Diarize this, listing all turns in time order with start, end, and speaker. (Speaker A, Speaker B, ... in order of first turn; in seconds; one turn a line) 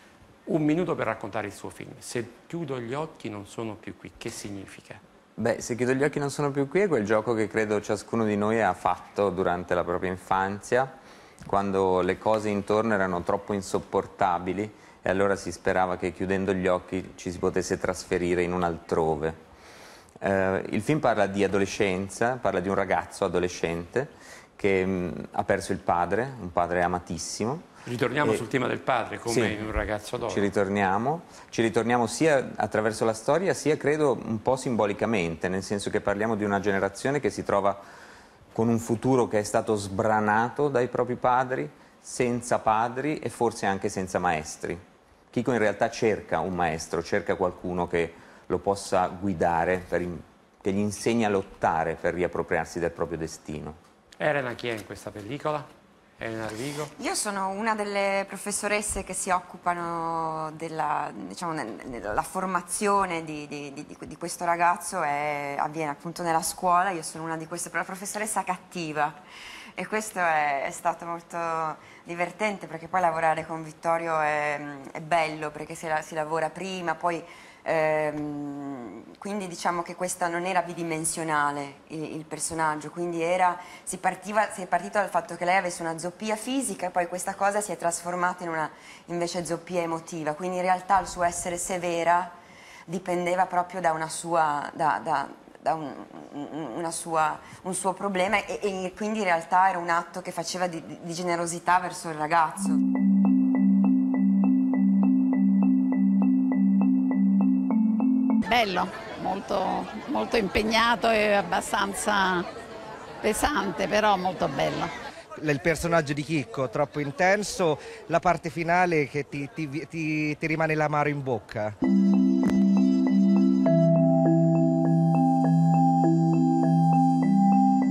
Speaker A: 0.5-5.0
Speaker B: 5.4-10.9
Speaker B: 11.4-19.4
Speaker B: 20.2-27.6
Speaker A: 27.9-30.5
Speaker B: 29.3-29.6
Speaker B: 30.3-37.8
Speaker B: 38.5-44.8
Speaker B: 45.3-53.8
Speaker A: 54.2-56.9
Speaker C: 57.0-69.2
Speaker C: 69.8-92.3
Speaker C: 92.9-102.8
Speaker D: 108.4-112.5
Speaker D: 113.2-114.9
Speaker E: 115.4-121.7